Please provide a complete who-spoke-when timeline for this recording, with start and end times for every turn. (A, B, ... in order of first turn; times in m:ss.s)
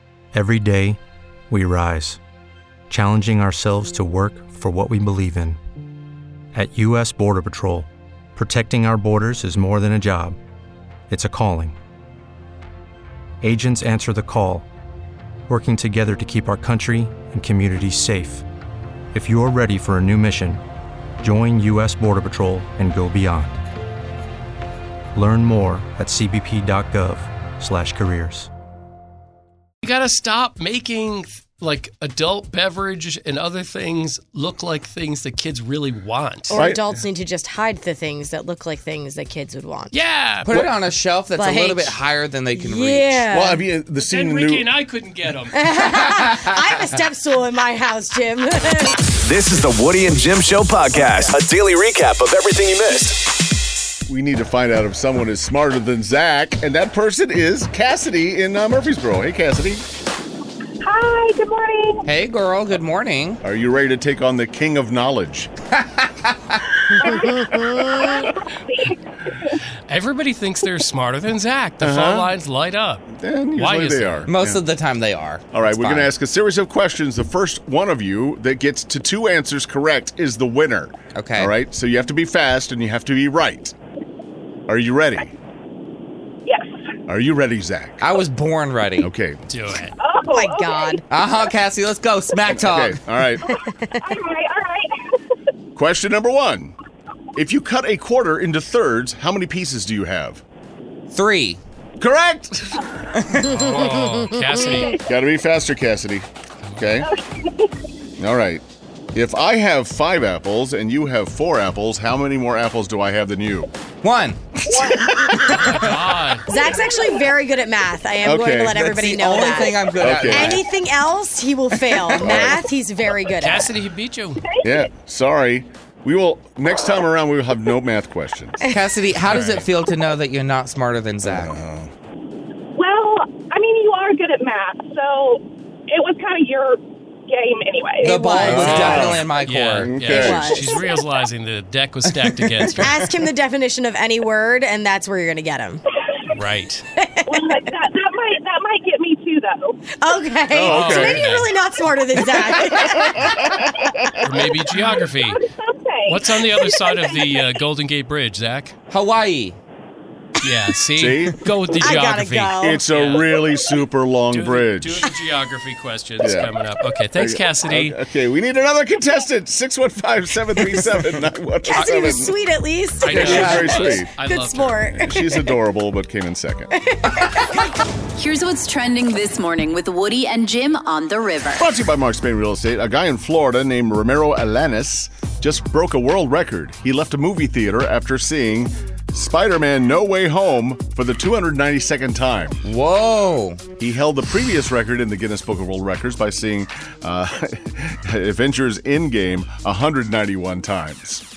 0:00.3-0:01.0 A
0:01.5-0:02.2 A
0:02.9-0:05.6 A
0:06.5-0:10.4 A
0:11.1-0:11.8 A
0:13.4-0:14.6 A
0:15.5-0:18.4 A
0:19.1-0:20.6 A
0:21.2-0:23.6 A
0:25.1-0:28.5 A
0:29.8-0:36.5 B
0:36.5-0:39.9 C
0:36.5-0:37.0 D
0:39.9-0:40.6 B
0:40.4-0:43.2 E
0:41.4-0:42.0 C
0:42.5-0:43.6 C
0:43.3-0:44.7 D
0:44.0-0:45.7 B
0:45.6-0:49.0 C
0:49.2-0:53.4 F
0:54.1-0:59.8 D
1:00.8-1:02.0 G
1:02.0-1:03.4 E
1:03.4-1:05.5 D
1:05.8-1:06.6 E
1:06.9-1:08.3 C
1:07.0-1:09.6 G
1:09.9-1:14.3 B
1:11.8-1:12.3 D
1:13.1-1:14.6 D
1:14.3-1:16.1 E
1:15.5-1:23.7 D
1:21.1-1:21.5 E
1:24.7-1:25.3 D
1:26.4-1:26.8 G
1:27.1-1:28.0 D
1:28.0-1:29.1 E
1:29.0-1:29.4 D
1:29.5-1:29.9 B
1:30.0-1:31.0 G
1:30.3-1:31.0 C
1:31.1-1:33.0 E
1:32.5-1:33.5 D
1:33.4-1:35.2 G
1:33.7-1:34.1 C
1:35.8-1:36.7 D
1:37.3-1:40.4 D
1:41.1-1:41.6 E
1:42.0-1:42.8 D
1:43.4-1:45.0 B
1:43.4-1:44.8 C
1:44.6-1:45.0 G
1:45.0-1:46.2 D
1:46.6-1:47.0 B
1:46.8-1:47.1 D
1:47.0-1:47.8 G
1:48.2-1:53.7 D
1:54.0-1:55.8 E
1:54.7-1:55.5 G
1:55.6-1:56.4 B
1:56.5-2:03.8 C
1:56.5-1:57.1 G
1:58.2-1:58.8 D
1:58.7-2:00.6 E
2:00.0-2:00.6 D
2:01.9-2:02.3 E
2:02.2-2:02.6 D
2:03.4-2:04.4 B
2:04.4-2:04.8 G
2:04.6-2:08.6 D
2:08.7-2:11.5 E
2:09.3-2:09.6 B
2:11.2-2:11.9 D
2:12.7-2:18.2 G
2:18.0-2:19.1 C
2:18.0-2:19.9 E
2:18.4-2:20.6 D
2:18.5-2:23.0 B
2:20.0-2:21.0 C
2:22.2-2:22.7 E
2:22.7-2:25.8 C
2:26.3-2:26.8 B
2:27.0-2:27.7 C
2:27.3-2:29.8 G
2:30.0-2:33.6 C
2:30.5-2:31.4 D
2:30.7-2:31.5 B
2:32.8-2:34.1 D
2:34.2-2:35.4 B
2:35.1-2:37.4 G
2:36.1-2:38.7 B
2:38.9-2:39.6 E
2:40.4-2:43.5 B
2:41.0-2:41.9 D
2:41.7-2:42.8 C
2:42.6-2:45.1 D
2:44.3-2:48.0 B
2:46.2-2:46.5 D
2:47.1-2:52.3 D
2:51.6-2:55.6 C
2:53.0-2:54.8 B
2:53.0-2:54.1 D
2:53.1-2:53.9 E
2:54.9-2:56.7 D
2:56.8-2:57.7 C
2:58.2-3:01.6 H
3:01.5-3:12.6 D
3:12.6-3:13.6 E
3:13.8-3:21.2 D